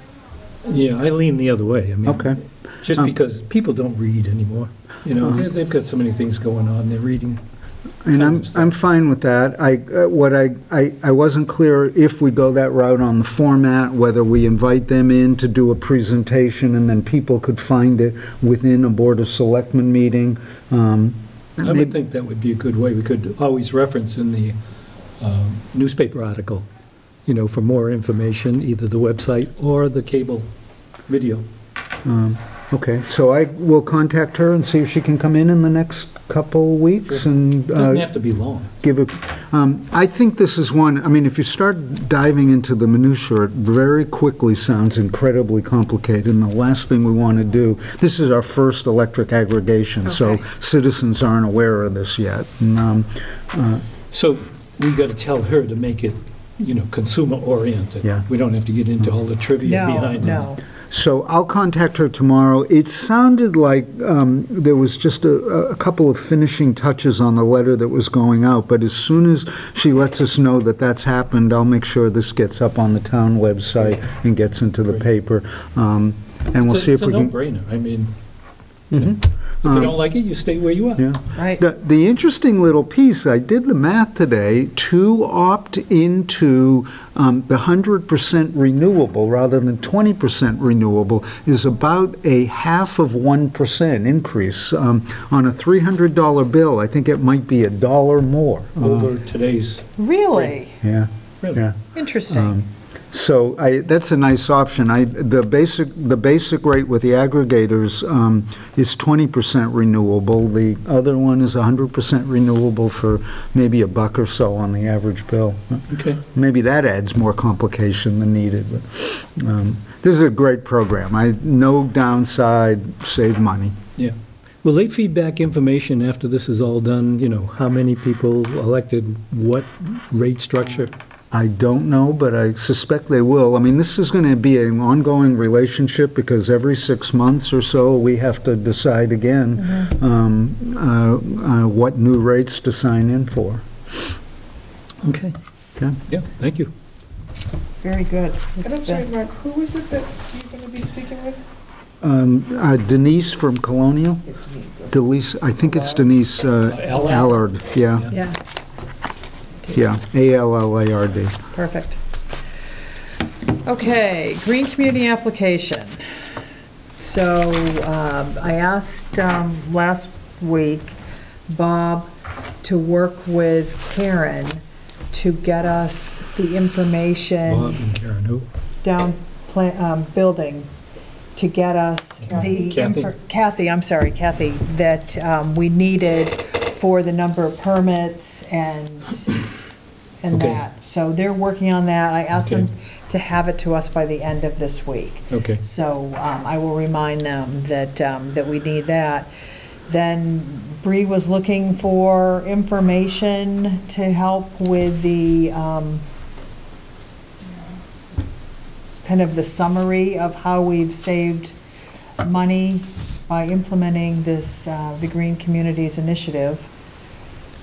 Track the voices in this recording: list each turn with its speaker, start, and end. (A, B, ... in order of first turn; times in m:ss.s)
0:00.6-0:07.4 A
0:02.1-0:02.4 B
0:08.0-0:21.9 B
0:08.1-0:08.7 A
0:21.6-0:24.6 A
0:25.2-0:26.7 A
0:27.3-0:30.5 A
0:31.1-0:31.4 A
0:32.0-0:38.1 B
0:37.1-0:38.7 A
0:38.8-0:53.8 B
0:50.1-0:50.4 C
0:54.1-1:00.5 A
0:59.6-1:00.6 D
1:00.9-1:17.3 B
1:16.6-1:18.1 A
1:18.9-1:20.0 B
1:18.9-1:21.0 A
1:21.0-1:39.1 B
1:21.4-1:21.6 D
1:38.8-1:40.5 A
1:40.0-1:40.8 D
1:40.8-2:03.8 B
1:41.9-1:42.6 D
1:55.9-1:56.2 A
2:04.0-2:10.9 A
2:11.3-2:23.7 B
2:19.6-2:19.9 D
2:25.0-2:25.3 A
2:26.1-2:26.7 A
2:27.8-2:29.1 D
2:28.6-2:31.4 C
2:32.0-2:34.3 B
2:34.3-2:35.0 C
2:34.9-2:38.1 B
2:35.6-2:36.1 C
2:36.7-2:37.4 A
2:38.1-2:38.4 D
2:39.7-2:41.4 B
2:41.5-2:42.0 D
2:43.6-2:46.0 D
2:47.0-2:51.0 D
2:51.5-2:52.1 D
2:52.6-2:54.6 D
2:55.1-2:57.7 D
2:57.5-2:58.5 A
2:58.8-3:00.7 D
3:01.4-3:09.4 D
3:02.3-3:03.1 A
3:10.2-3:19.3 D
3:10.3-3:10.7 A
3:12.3-3:12.7 A
3:15.3-3:15.6 A
3:19.9-3:26.0 D
3:29.0-3:31.6 D
3:32.2-3:36.7 D